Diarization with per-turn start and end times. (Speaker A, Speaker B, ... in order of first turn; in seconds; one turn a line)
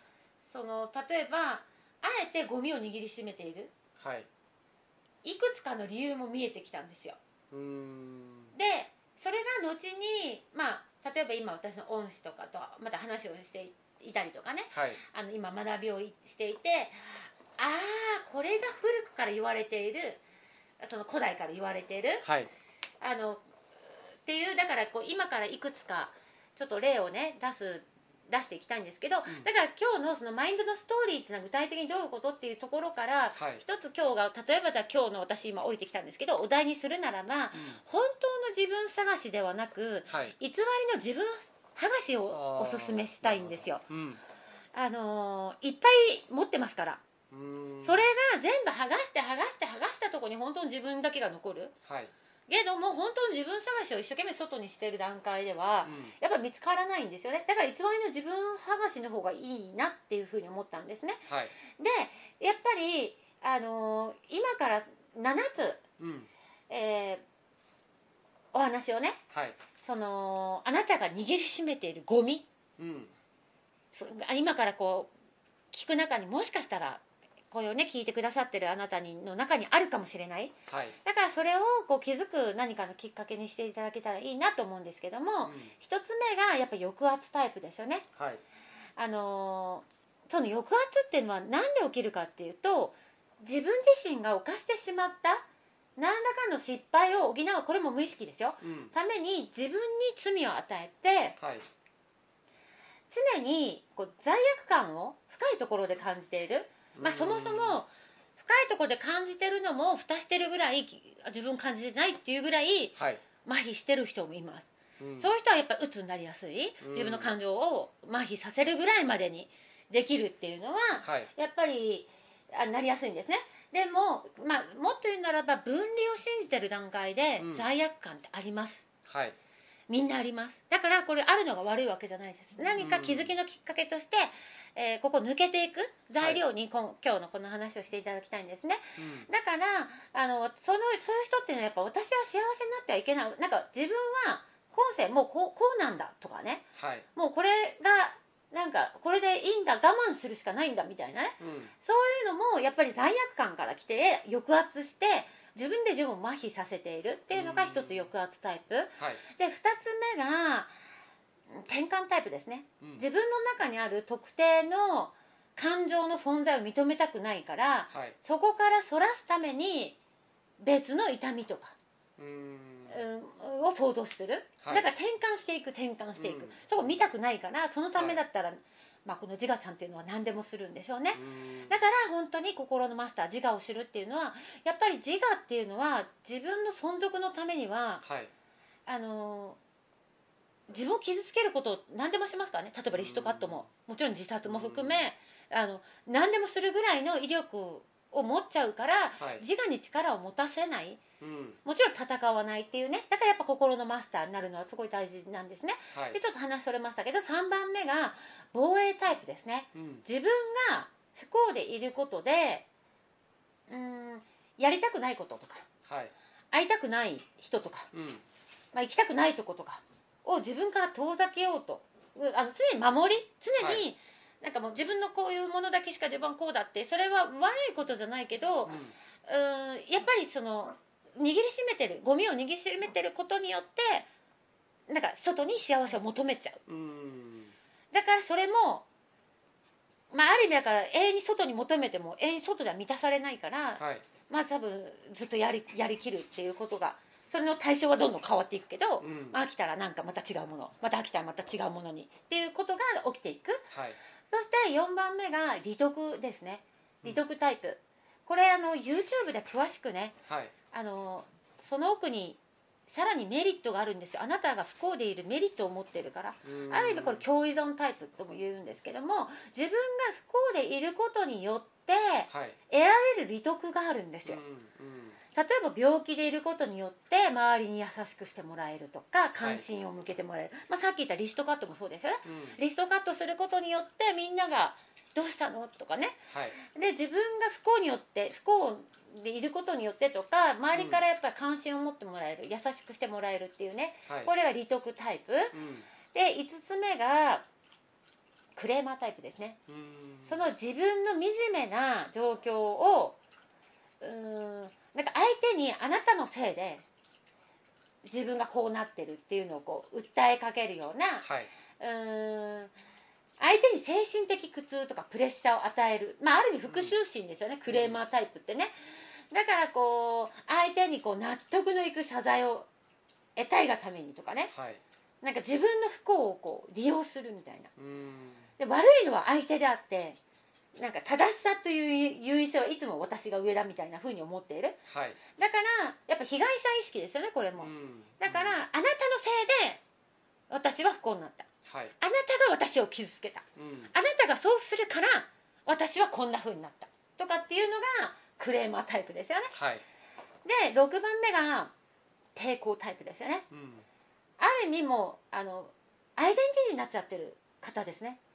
Speaker A: 0.4-3.7
Speaker B: 4.0-4.3
Speaker A: 5.2-7.2
Speaker B: 7.5-8.5
Speaker A: 8.5-20.2
Speaker B: 14.7-15.0
Speaker A: 20.8-22.3
Speaker B: 22.2-22.5
Speaker A: 23.0-23.4
Speaker A: 24.2-43.8
Speaker B: 33.4-33.6
Speaker B: 37.5-37.8
Speaker B: 40.1-40.3
Speaker B: 42.3-44.2
Speaker A: 44.7-47.0
Speaker B: 47.3-48.1
Speaker A: 47.8-51.7
Speaker B: 51.9-52.1
Speaker A: 52.5-61.2
Speaker B: 55.9-56.1
Speaker B: 61.3-61.5
Speaker A: 61.8-65.8
Speaker B: 66.0-66.3
Speaker A: 66.7-67.2
Speaker A: 68.5-69.2
Speaker B: 69.3-69.6
Speaker A: 69.8-72.5
Speaker B: 72.8-73.1
Speaker A: 73.9-75.1
Speaker A: 75.7-88.1
Speaker B: 80.7-81.0
Speaker B: 85.4-85.7
Speaker A: 89.0-95.5
Speaker A: 96.0-101.4
Speaker B: 98.6-98.9
Speaker B: 101.4-101.7
Speaker A: 103.1-128.8
Speaker B: 107.0-107.8
Speaker B: 115.0-115.3
Speaker B: 116.8-117.3
Speaker B: 127.4-127.7
Speaker B: 129.1-129.4
Speaker A: 129.9-160.7
Speaker B: 132.8-133.3
Speaker B: 139.0-139.3
Speaker B: 146.8-147.1
Speaker B: 151.4-151.7
Speaker B: 157.3-158.0
Speaker A: 161.5-170.0
Speaker A: 170.6-171.8
Speaker B: 172.2-172.9
Speaker A: 172.9-188.0
Speaker B: 176.3-176.5
Speaker B: 181.2-181.8
Speaker B: 188.0-188.3
Speaker A: 188.9-189.6
Speaker A: 190.7-201.0
Speaker B: 193.0-193.5
Speaker B: 194.5-195.0
Speaker B: 201.2-201.6
Speaker A: 201.7-212.7
Speaker A: 213.7-215.7
Speaker A: 216.5-217.9
Speaker B: 217.9-218.2
Speaker A: 218.7-234.1
Speaker A: 234.9-236.6
Speaker B: 236.7-237.5
Speaker A: 237.9-238.9
Speaker A: 240.1-253.7
Speaker A: 254.3-260.2
Speaker A: 260.7-274.4
Speaker B: 274.3-275.1
Speaker A: 275.4-295.6
Speaker A: 296.1-297.4
Speaker A: 298.6-299.6
Speaker A: 300.3-303.2
Speaker A: 304.0-306.9
Speaker A: 308.1-311.3
Speaker A: 311.8-312.7
Speaker A: 313.4-318.7
Speaker A: 319.3-322.7
Speaker A: 323.4-324.5
Speaker A: 325.2-327.7
Speaker B: 327.9-328.3
Speaker A: 328.6-330.2
Speaker A: 330.8-334.8
Speaker A: 335.4-339.8
Speaker A: 340.5-341.5
Speaker A: 342.0-349.5
Speaker A: 350.4-351.7
Speaker A: 352.4-353.4
Speaker B: 353.5-353.8
Speaker A: 354.4-358.2